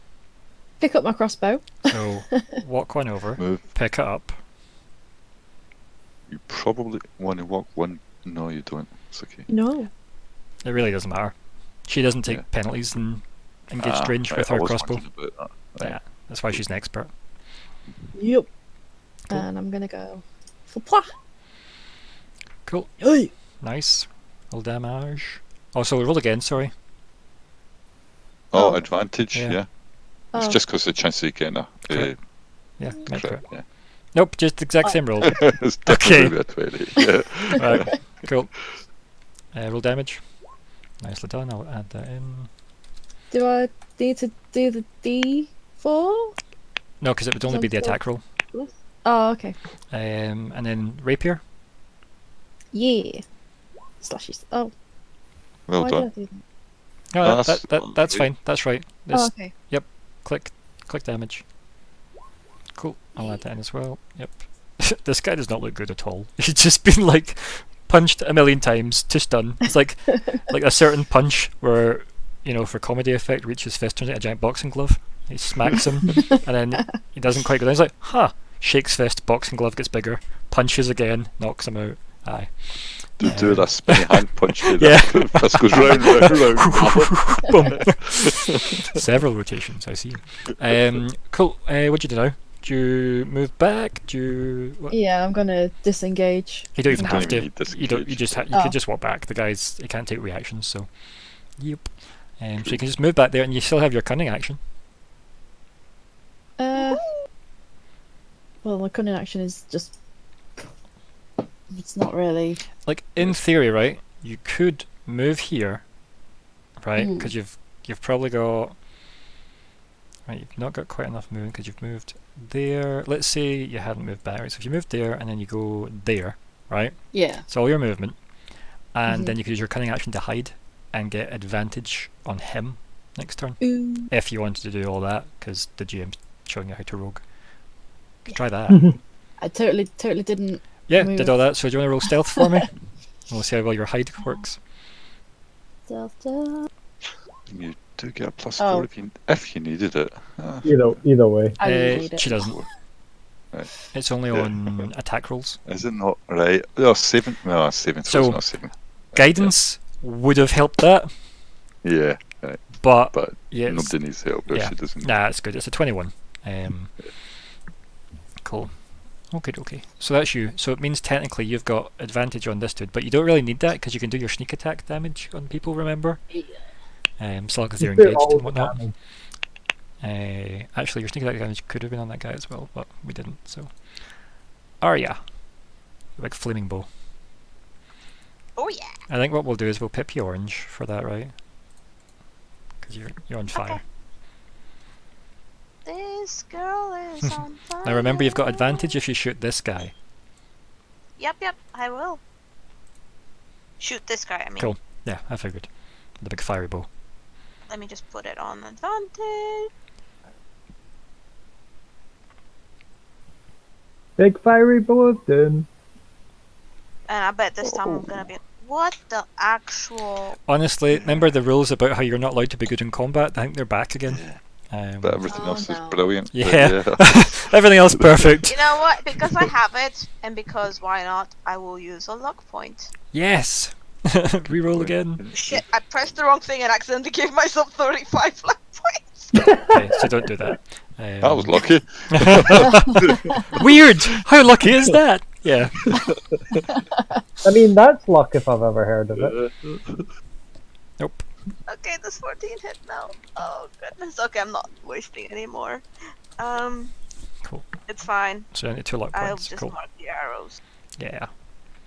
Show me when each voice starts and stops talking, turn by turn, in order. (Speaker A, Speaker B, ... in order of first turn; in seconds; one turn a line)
Speaker A: 0.8-1.9
Speaker B: 1.9-4.4
Speaker C: 3.4-3.6
Speaker C: 6.3-9.5
Speaker A: 9.5-9.9
Speaker B: 10.6-15.0
Speaker C: 13.8-16.0
Speaker B: 15.8-17.1
Speaker A: 18.1-18.5
Speaker A: 19.3-21.1
Speaker B: 22.6-23.0
Speaker A: 23.0-23.3
Speaker B: 23.6-26.7
Speaker C: 28.5-29.8
Speaker A: 28.5-28.8
Speaker B: 29.3-29.6
Speaker A: 30.3-30.6
Speaker C: 30.3-32.2
Speaker B: 31.9-36.4
Speaker C: 33.1-33.6
Speaker C: 35.2-38.0
Speaker B: 37.5-38.5
Speaker B: 39.5-40.4
Speaker B: 41.0-42.5
Speaker A: 43.3-46.4
Speaker B: 47.0-48.2
Speaker A: 47.5-48.0
Speaker A: 48.5-49.5
Speaker B: 49.9-51.4
Speaker A: 52.7-53.2
Speaker A: 54.0-54.7
Speaker C: 55.7-56.1
Speaker A: 55.7-56.4
Speaker B: 57.1-61.4
Speaker C: 57.2-58.3
Speaker A: 59.1-59.5
Speaker B: 62.7-95.0
Speaker C: 83.2-88.9
Speaker A: 94.9-97.3
Speaker B: 96.7-104.6
Speaker C: 96.8-98.5
Speaker A: 106.6-107.0
Speaker D: 106.7-107.2
Speaker A: 108.6-110.0
Speaker A: 111.7-112.7
Speaker B: 112.8-115.9
Speaker B: 116.8-118.8
Speaker A: 117.0-117.3
Speaker B: 120.3-128.2
Speaker A: 127.1-127.4
Speaker B: 128.9-137.3
Speaker A: 129.1-129.3
Speaker A: 133.6-134.1
Speaker B: 138.2-138.9
Speaker E: 138.7-139.0
Speaker A: 139.4-142.6
Speaker B: 140.9-144.6
Speaker A: 145.9-146.7
Speaker C: 147.5-151.0
Speaker A: 148.6-148.9
Speaker E: 150.6-151.6
Speaker A: 151.6-152.6
Speaker B: 151.6-152.6
Speaker C: 151.9-152.7
Speaker B: 153.9-155.6
Speaker C: 154.3-154.8
Speaker C: 155.6-159.5
Speaker B: 158.1-161.2
Speaker C: 161.8-165.1
Speaker B: 162.8-166.9
Speaker B: 168.4-176.2
Speaker B: 177.2-179.0
Speaker E: 177.8-178.9
Speaker B: 180.0-184.0
Speaker B: 184.8-185.3
Speaker B: 186.2-186.9
Speaker D: 188.6-188.9
Speaker B: 189.1-191.3
Speaker B: 192.8-193.8
Speaker D: 193.5-193.8
Speaker D: 195.8-199.0
Speaker B: 197.2-199.9
Speaker D: 201.2-202.2
Speaker D: 203.8-204.7
Speaker B: 204.6-206.9
Speaker D: 207.7-209.7
Speaker E: 214.2-215.7
Speaker D: 217.1-220.4
Speaker C: 217.6-218.3
Speaker B: 220.5-225.2
Speaker C: 220.9-221.3
Speaker C: 224.1-224.4
Speaker C: 225.0-228.5
Speaker A: 225.3-226.1
Speaker B: 226.3-228.6
Speaker D: 228.5-232.9
Speaker B: 233.1-235.2
Speaker C: 234.5-235.6
Speaker D: 235.3-239.4
Speaker E: 239.4-240.0
Speaker B: 239.7-245.9
Speaker C: 241.2-244.1
Speaker C: 245.8-246.6
Speaker A: 246.7-247.2
Speaker E: 247.4-249.3
Speaker C: 249.2-250.1
Speaker B: 251.0-251.3
Speaker D: 251.7-255.8
Speaker D: 256.4-256.9
Speaker B: 257.4-257.7
Speaker D: 257.9-258.5
Speaker B: 258.5-259.8
Speaker D: 259.1-260.6
Speaker B: 261.0-261.3